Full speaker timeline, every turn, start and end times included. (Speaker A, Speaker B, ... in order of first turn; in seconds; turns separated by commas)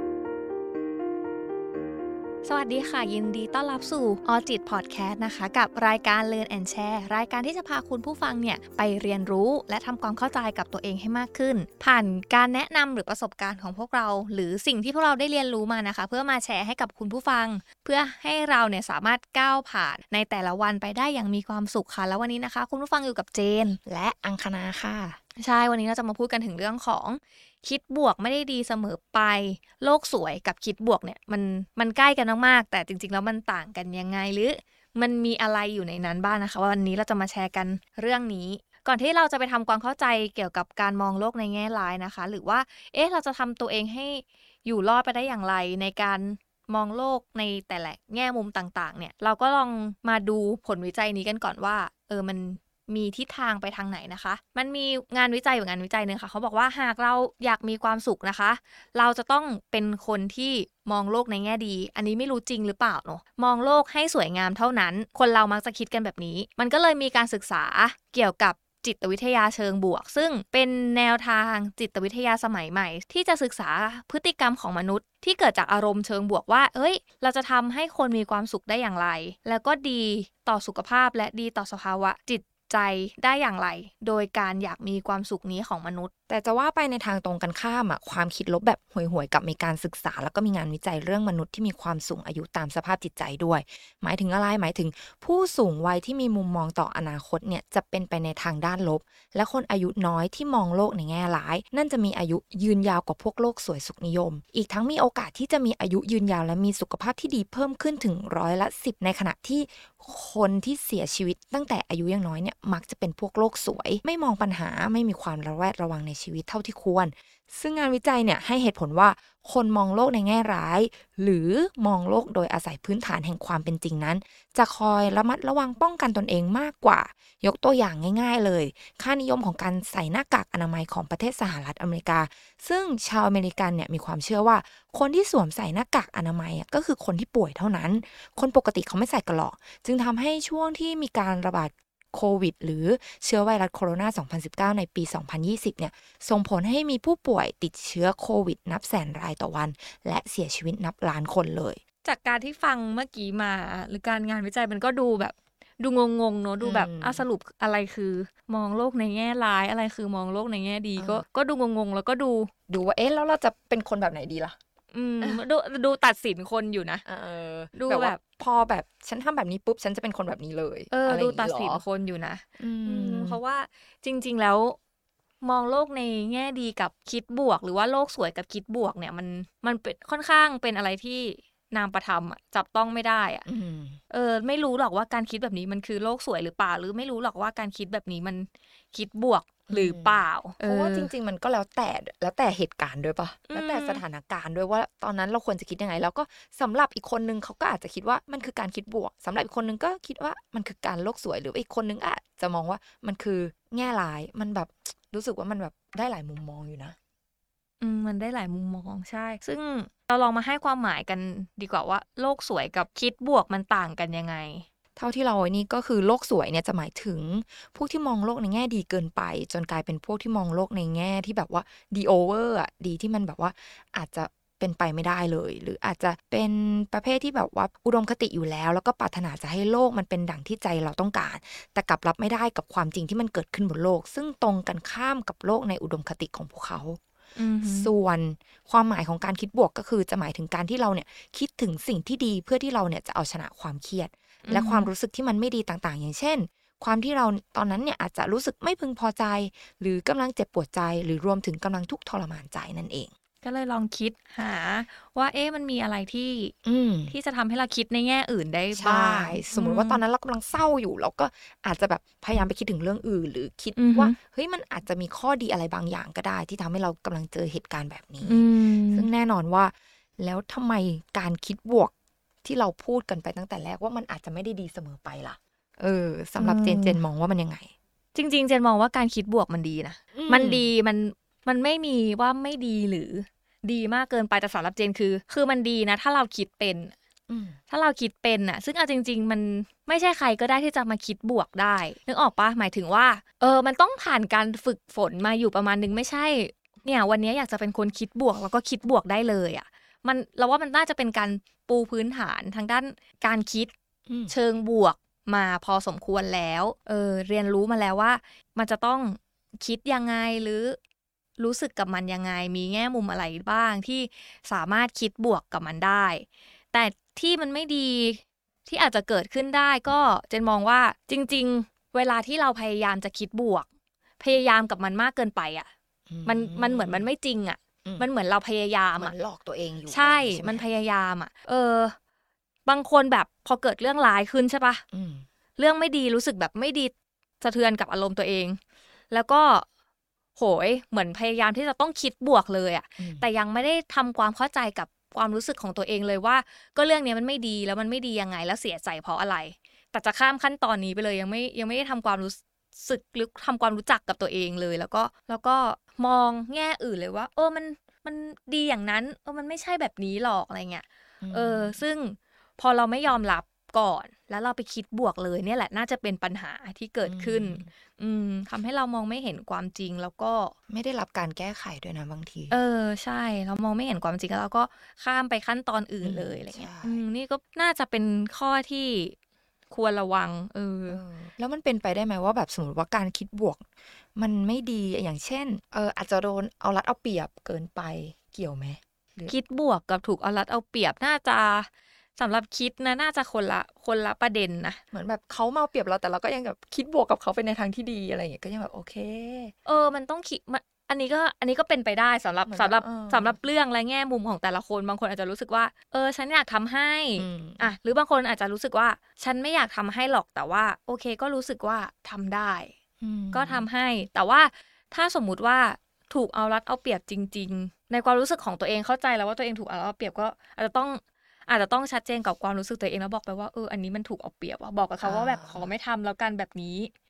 Speaker A: 2.4-23.8, Speaker B: 23.8-25.2, Speaker A: 25.4-86.1, Speaker B: 86.3-151.8, Speaker A: 152.0-162.5, Speaker B: 156.6-157.2, Speaker B: 161.0-161.2, Speaker B: 162.7-164.6, Speaker A: 164.9-167.0, Speaker B: 167.0-171.8, Speaker A: 167.7-168.2, Speaker A: 170.9-174.8, Speaker B: 172.6-173.4, Speaker A: 175.4-183.4, Speaker B: 183.4-184.0, Speaker A: 184.1-191.1, Speaker B: 189.7-206.9, Speaker A: 193.5-194.0, Speaker A: 207.8-214.7, Speaker B: 214.9-237.0, Speaker A: 237.3-237.9, Speaker B: 237.6-253.1, Speaker A: 244.4-244.9, Speaker A: 253.4-256.5, Speaker B: 256.6-257.1, Speaker A: 257.1-260.0, Speaker B: 258.7-271.9, Speaker A: 263.8-264.1, Speaker A: 268.2-269.1, Speaker B: 272.4-277.7, Speaker A: 276.4-277.0, Speaker A: 278.1-286.9, Speaker B: 280.1-280.7, Speaker B: 287.3-287.6, Speaker A: 287.7-303.7, Speaker B: 304.1-304.3, Speaker A: 304.3-310.8, Speaker A: 311.4-323.7, Speaker A: 324.2-325.7, Speaker B: 326.1-327.1, Speaker A: 326.2-329.1, Speaker B: 327.8-328.1, Speaker B: 329.0-330.6, Speaker A: 329.9-331.9, Speaker A: 332.6-334.8, Speaker B: 334.9-335.3, Speaker A: 335.6-338.6, Speaker A: 339.1-339.6, Speaker A: 340.4-370.5, Speaker B: 343.0-343.3, Speaker B: 361.2-361.8, Speaker B: 367.0-367.7, Speaker B: 370.7-372.6, Speaker A: 372.5-379.1, Speaker B: 376.0-377.0, Speaker A: 379.7-381.0, Speaker B: 380.9-389.3, Speaker A: 389.3-394.8, Speaker B: 394.9-399.5, Speaker A: 399.6-412.7, Speaker B: 402.5-403.4, Speaker B: 407.2-407.7, Speaker B: 413.0-413.7, Speaker A: 413.3-426.9, Speaker B: 425.0-425.7